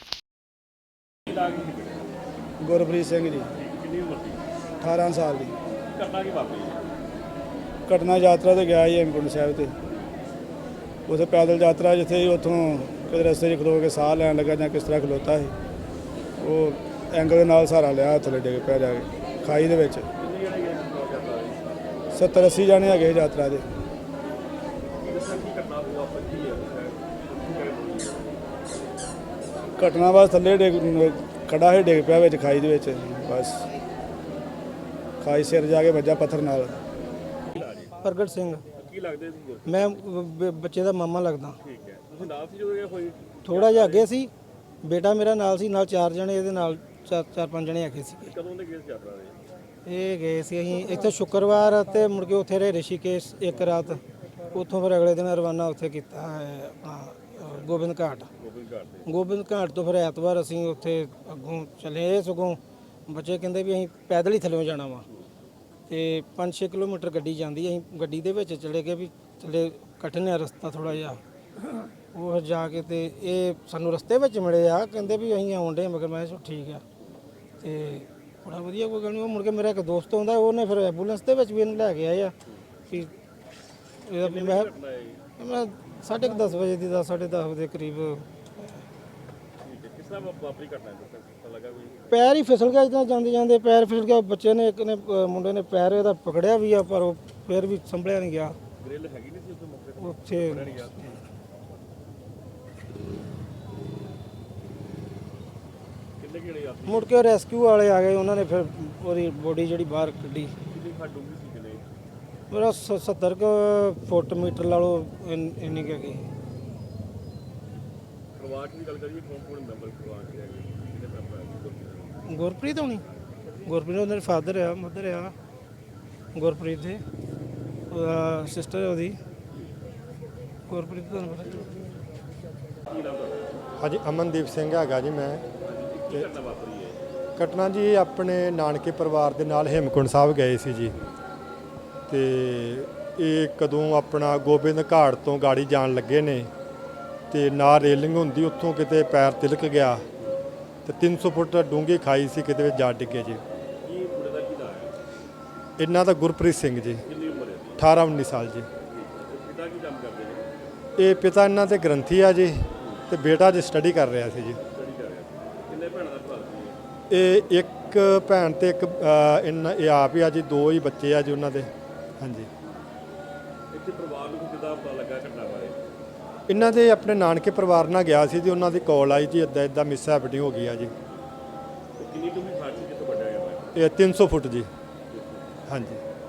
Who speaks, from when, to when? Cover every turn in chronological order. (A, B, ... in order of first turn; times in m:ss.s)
0:01.2-0:02.1 A
0:02.6-0:03.5 B
0:03.5-0:04.4 A
0:04.8-0:05.6 B
0:05.9-0:06.8 A
0:07.9-0:09.7 B
0:11.1-0:15.6 B
0:16.4-0:20.1 B
0:20.2-0:21.6 A
0:22.1-0:23.8 B
0:25.0-0:28.4 A
0:29.8-0:33.6 B
0:35.2-0:36.8 B
0:37.5-0:37.9 A
0:38.0-0:38.6 C
0:38.7-0:40.0 A
0:39.6-0:41.6 C
0:41.6-0:44.1 A
0:43.4-0:44.3 C
0:44.8-0:48.3 C
0:48.3-0:49.4 A
0:49.8-0:54.0 C
0:54.5-0:58.3 C
0:58.4-0:59.1 A
0:59.0-1:05.0 C
1:05.9-1:16.8 C
1:17.6-1:22.3 C
1:24.0-1:24.7 C
1:24.2-1:25.2 A
1:25.4-1:28.7 C
1:29.6-1:32.2 A
1:32.1-1:38.6 C
1:38.8-1:41.1 A
1:40.0-1:41.1 C
1:46.2-1:47.1 A
1:46.9-1:50.5 C
1:50.7-1:51.8 A
1:52.5-1:56.2 C
1:58.3-2:02.3 A
2:02.3-2:03.0 C
2:03.6-2:05.3 C
2:06.3-2:07.0 C
2:07.9-2:09.2 C
2:10.7-2:11.7 C
2:12.9-2:13.5 A
2:13.8-2:15.4 D
2:15.6-2:17.0 A
2:17.4-2:21.0 D
2:22.1-2:26.5 D
2:27.3-2:30.0 D
2:30.8-2:33.4 D
2:33.8-2:34.9 A
2:35.8-2:37.0 D
2:37.0-2:37.8 A
2:37.8-2:38.7 D
2:38.9-2:40.5 A
2:41.0-2:44.6 D
2:42.8-2:43.0 A
2:44.7-2:46.8 A
2:47.1-2:52.5 D
2:53.7-2:55.8 A
2:56.5-3:00.9 D
3:02.0-3:03.7 A
3:03.7-3:04.7 D
3:05.1-3:05.5 A
3:05.7-3:06.0 D